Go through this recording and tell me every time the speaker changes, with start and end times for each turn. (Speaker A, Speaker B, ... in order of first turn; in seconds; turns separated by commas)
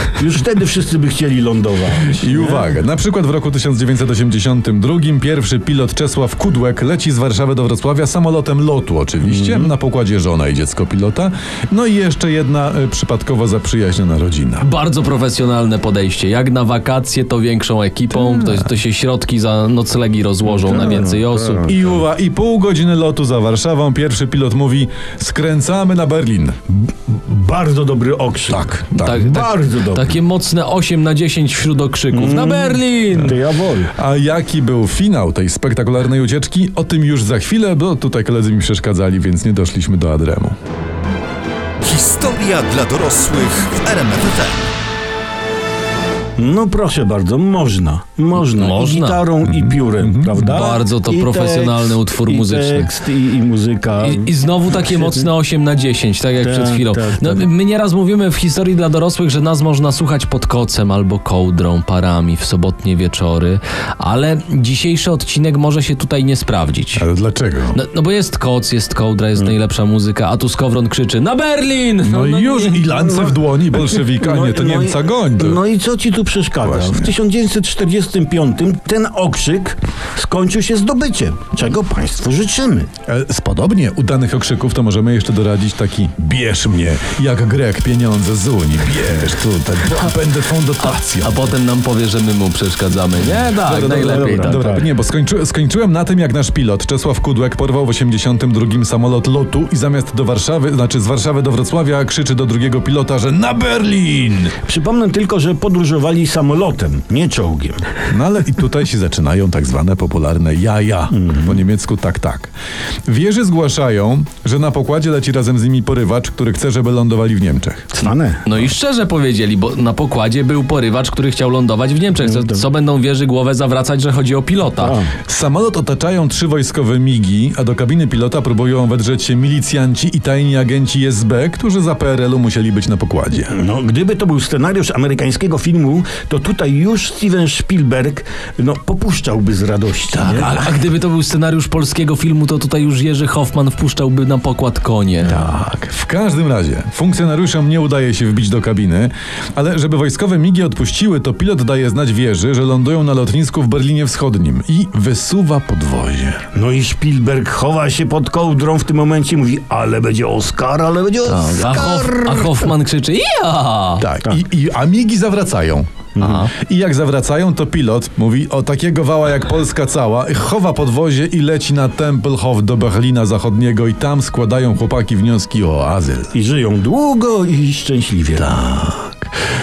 Speaker A: 0.2-2.7, Speaker B: 2.1-14.7, Speaker A: 9.2-9.7, Speaker C: 14.6-21.6, Speaker B: 18.1-18.7, Speaker A: 20.5-22.0, Speaker B: 21.7-26.6, Speaker A: 26.7-28.6, Speaker B: 28.5-29.4, Speaker C: 28.9-33.4, Speaker A: 29.2-30.1, Speaker A: 32.1-33.9, Speaker B: 34.0-40.6, Speaker D: 41.8-44.7, Speaker A: 46.4-55.3, Speaker C: 48.4-49.3, Speaker B: 49.4-50.6, Speaker C: 50.5-52.9, Speaker C: 54.0-67.1, Speaker A: 56.4-57.5, Speaker B: 67.0-67.8, Speaker C: 67.7-72.8, Speaker B: 72.0-75.6, Speaker A: 72.9-82.9, Speaker B: 76.6-77.1, Speaker B: 83.1-91.5, Speaker C: 90.8-94.7, Speaker B: 93.6-104.6, Speaker A: 93.8-94.9, Speaker A: 104.7-107.8, Speaker B: 108.1-112.5, Speaker A: 111.1-111.6, Speaker B: 113.1-117.9, Speaker A: 117.9-118.4, Speaker C: 118.4-125.0, Speaker A: 122.2-122.7, Speaker A: 124.8-125.1, Speaker B: 125.3-133.5, Speaker A: 133.5-140.6, Speaker C: 140.2-145.4, Speaker B: 145.3-156.5, Speaker A: 156.5-162.7, Speaker C: 161.3-164.1, Speaker B: 164.0-176.3, Speaker A: 166.2-166.5, Speaker C: 166.2-166.5, Speaker A: 176.3-178.5, Speaker B: 178.4-179.2